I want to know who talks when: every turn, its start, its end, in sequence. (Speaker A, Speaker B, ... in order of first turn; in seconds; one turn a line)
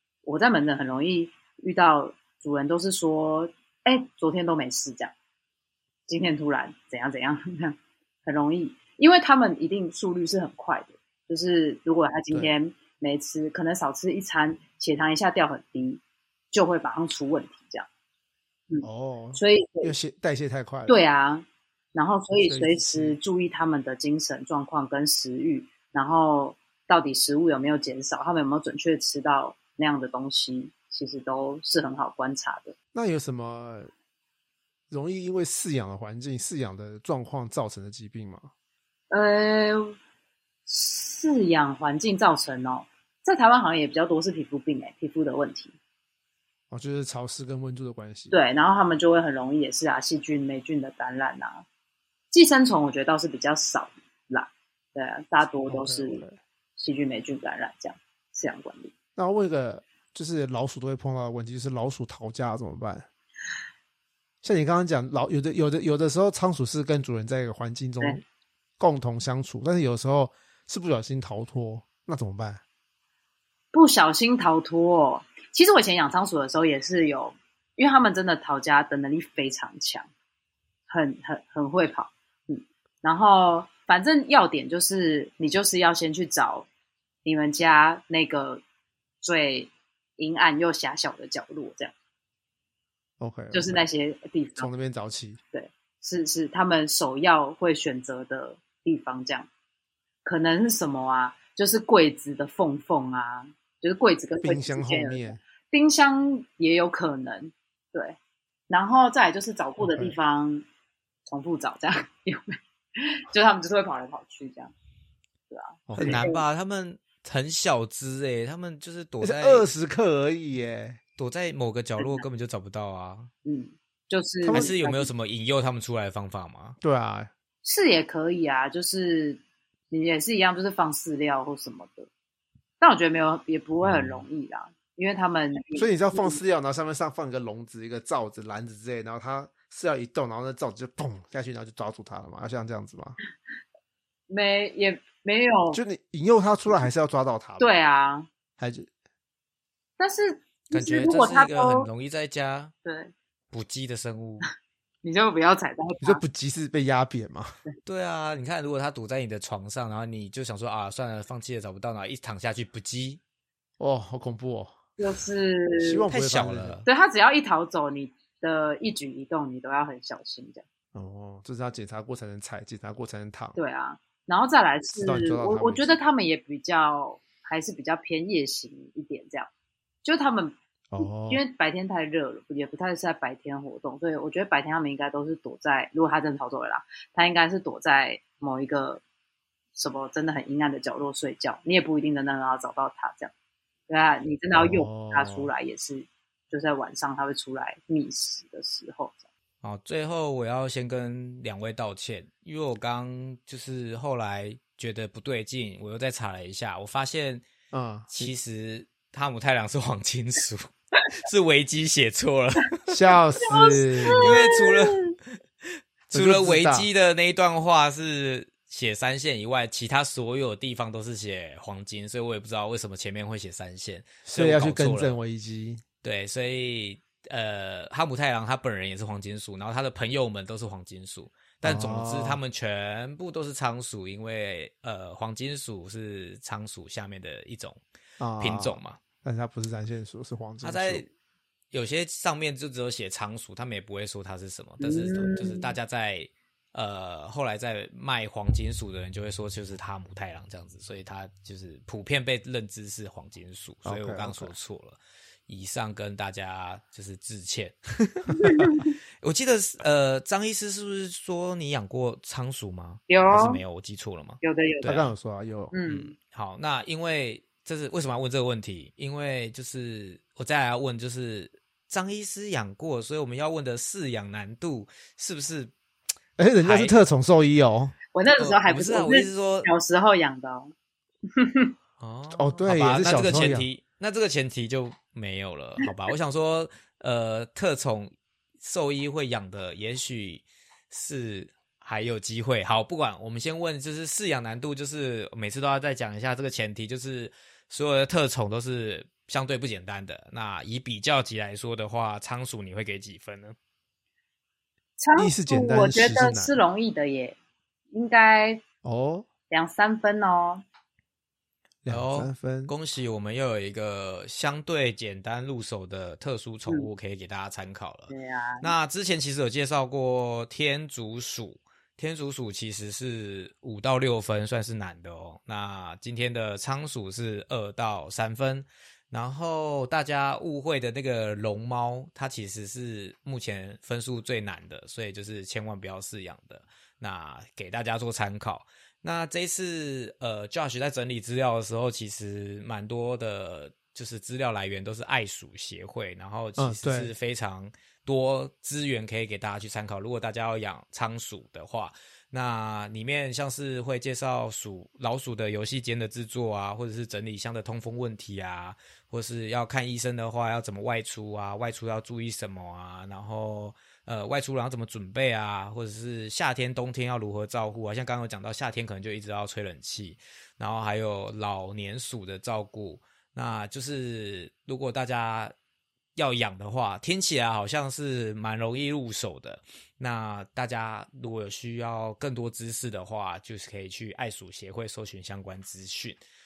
Speaker A: 0.2-5.1
Speaker A: 6.1-16.0
Speaker A: 16.5-17.9
Speaker A: 18.7-19.9
Speaker B: 18.8-21.0
Speaker A: 20.9-32.7
Speaker B: 22.4-23.2
Speaker B: 32.9-33.9
Speaker B: 34.9-38.5
Speaker A: 39.1-40.0
Speaker A: 40.7-45.7
Speaker B: 46.7-48.3
Speaker A: 48.3-51.6
Speaker A: 52.3-56.2
Speaker B: 55.7-56.4
Speaker A: 56.8-58.9
Speaker B: 59.1-63.1
Speaker B: 64.4-68.2
Speaker B: 68.8-72.6
Speaker A: 73.7-80.1
Speaker A: 80.9-86.7
Speaker A: 87.2-88.6
Speaker A: 89.2-91.9
Speaker B: 93.2-93.8
Speaker A: 93.5-94.7
Speaker B: 94.5-95.4
Speaker A: 95.5-99.5
Speaker A: 100.2-108.2
Speaker B: 104.4-105.4
Speaker A: 108.7-110.6
Speaker B: 109.8-110.2
Speaker A: 111.2-114.7
Speaker A: 115.5-116.4
Speaker B: 115.9-116.2
Speaker C: 115.9-119.7
Speaker B: 119.2-121.0
Speaker C: 121.2-123.3
Speaker A: 122.0-122.2
Speaker A: 123.4-125.1
Speaker B: 124.4-124.7
Speaker C: 124.5-126.8
Speaker B: 126.8-127.3
Speaker A: 127.6-129.4
Speaker A: 129.9-132.1
Speaker A: 132.8-136.4
Speaker B: 133.8-134.2
Speaker B: 135.8-143.2
Speaker A: 144.3-145.8
Speaker B: 145.7-147.6
Speaker A: 147.6-148.3
Speaker B: 148.6-148.9
Speaker A: 150.0-151.9
Speaker C: 150.7-152.7
Speaker A: 152.8-153.1
Speaker C: 153.5-154.4
Speaker A: 155.0-156.2
Speaker B: 156.0-157.6
Speaker C: 157.8-163.2
Speaker B: 163.8-164.9
Speaker A: 165.0-166.1
Speaker B: 165.8-166.8
Speaker C: 166.1-166.9
Speaker A: 166.8-170.6
Speaker B: 170.9-173.6
Speaker A: 173.6-179.5
Speaker B: 174.9-176.0
Speaker A: 180.0-189.0
Speaker B: 180.9-181.4
Speaker A: 189.7-193.3
Speaker A: 193.9-199.3
Speaker B: 194.5-195.5
Speaker C: 199.6-207.5
Speaker B: 207.7-208.3
Speaker C: 208.1-212.8
Speaker B: 212.9-214.3
Speaker A: 213.5-215.1
Speaker C: 214.1-225.2
Speaker B: 216.1-216.9
Speaker B: 224.2-225.8
Speaker C: 226.0-237.8
Speaker B: 231.6-232.4
Speaker B: 238.2-241.0
Speaker C: 238.4-239.0
Speaker C: 240.6-241.1
Speaker C: 241.7-258.5
Speaker A: 244.8-245.7
Speaker B: 253.8-254.5
Speaker A: 258.4-258.9
Speaker C: 259.2-265.1
Speaker A: 263.1-263.6
Speaker A: 264.4-265.0
Speaker B: 264.9-265.8
Speaker A: 265.7-266.1
Speaker C: 265.9-275.7
Speaker B: 276.4-277.9
Speaker C: 276.6-277.0
Speaker A: 278.1-280.7
Speaker C: 278.4-279.7
Speaker A: 281.3-281.7
Speaker C: 282.0-303.6
Speaker B: 282.3-283.7
Speaker A: 305.0-307.4
Speaker B: 305.1-306.6
Speaker A: 307.9-308.6
Speaker B: 308.8-309.3
Speaker A: 309.5-310.6
Speaker B: 311.8-312.7
Speaker C: 311.9-375.5
Speaker A: 318.1-318.7
Speaker B: 346.6-347.1
Speaker C: 376.1-386.2